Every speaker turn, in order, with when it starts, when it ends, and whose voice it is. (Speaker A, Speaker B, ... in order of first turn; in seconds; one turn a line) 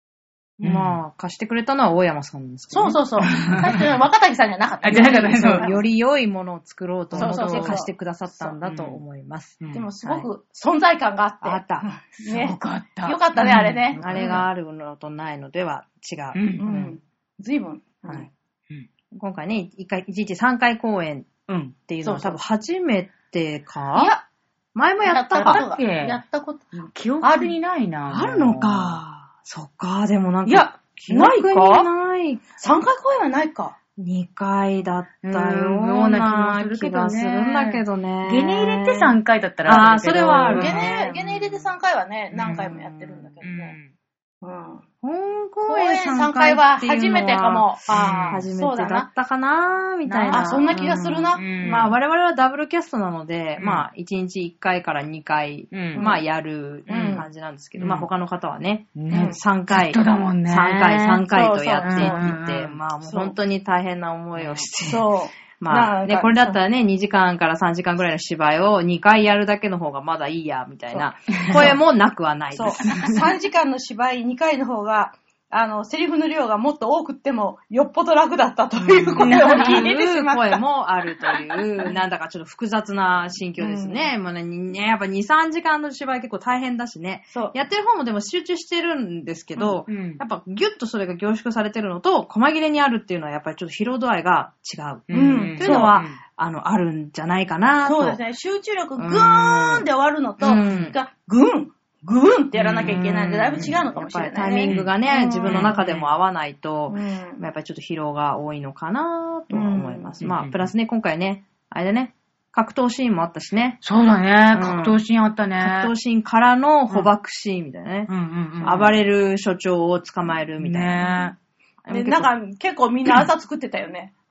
Speaker A: 0.6-3.6
Speaker B: 0.6-1.0
Speaker C: 2.7-5.8
Speaker B: 3.2-3.8
Speaker B: 4.8-5.7
Speaker A: 4.9-10.3
Speaker B: 7.1-7.8
Speaker C: 7.2-8.6
Speaker B: 8.6-9.0
Speaker B: 9.6-9.8
Speaker C: 9.7-14.4
Speaker A: 11.4-11.9
Speaker B: 12.2-14.5
Speaker A: 13.5-16.9
Speaker B: 16.3-16.7
Speaker C: 16.6-18.3
Speaker A: 19.1-24.1
Speaker B: 21.5-21.7
Speaker C: 22.0-22.4
Speaker C: 24.0-24.2
Speaker A: 24.8-25.6
Speaker C: 25.1-27.5
Speaker B: 25.4-26.2
Speaker B: 26.8-29.0
Speaker A: 28.1-32.4
Speaker C: 30.5-31.9
Speaker C: 32.6-33.8
Speaker A: 34.0-41.2
Speaker B: 35.2-41.0
Speaker C: 40.2-43.8
Speaker B: 42.4-42.8
Speaker A: 42.5-43.3
Speaker B: 43.4-43.9
Speaker C: 44.4-44.8
Speaker A: 45.0-73.3
Speaker C: 45.7-49.1
Speaker B: 47.9-48.5
Speaker B: 50.1-50.8
Speaker C: 50.3-51.9
Speaker B: 51.4-51.9
Speaker B: 53.6-53.9
Speaker B: 55.7-56.0
Speaker C: 56.0-56.2
Speaker C: 56.9-57.2
Speaker B: 56.9-57.2
Speaker B: 57.8-58.1
Speaker B: 59.0-61.3
Speaker C: 59.1-59.4
Speaker C: 61.3-62.3
Speaker B: 61.8-62.8
Speaker C: 63.0-63.4
Speaker B: 64.4-64.7
Speaker C: 64.8-66.6
Speaker C: 70.9-71.8
Speaker B: 71.4-71.7
Speaker C: 72.5-80.6
Speaker A: 78.8-98.2
Speaker B: 79.2-79.9
Speaker C: 83.6-84.1
Speaker C: 87.3-87.6
Speaker B: 89.9-90.2
Speaker B: 95.1-96.2
Speaker C: 95.1-96.0
Speaker C: 97.8-105.8
Speaker A: 99.0-99.9
Speaker A: 100.4-101.0
Speaker B: 102.6-103.0
Speaker A: 102.8-113.8
Speaker B: 104.7-104.9
Speaker B: 105.4-106.1
Speaker C: 106.9-107.4
Speaker C: 109.5-110.2
Speaker B: 110.2-110.7
Speaker B: 113.8-115.9
Speaker A: 114.5-115.0
Speaker A: 115.6-121.3
Speaker B: 118.1-118.9
Speaker B: 120.6-121.3
Speaker A: 121.8-122.3
Speaker C: 121.9-124.1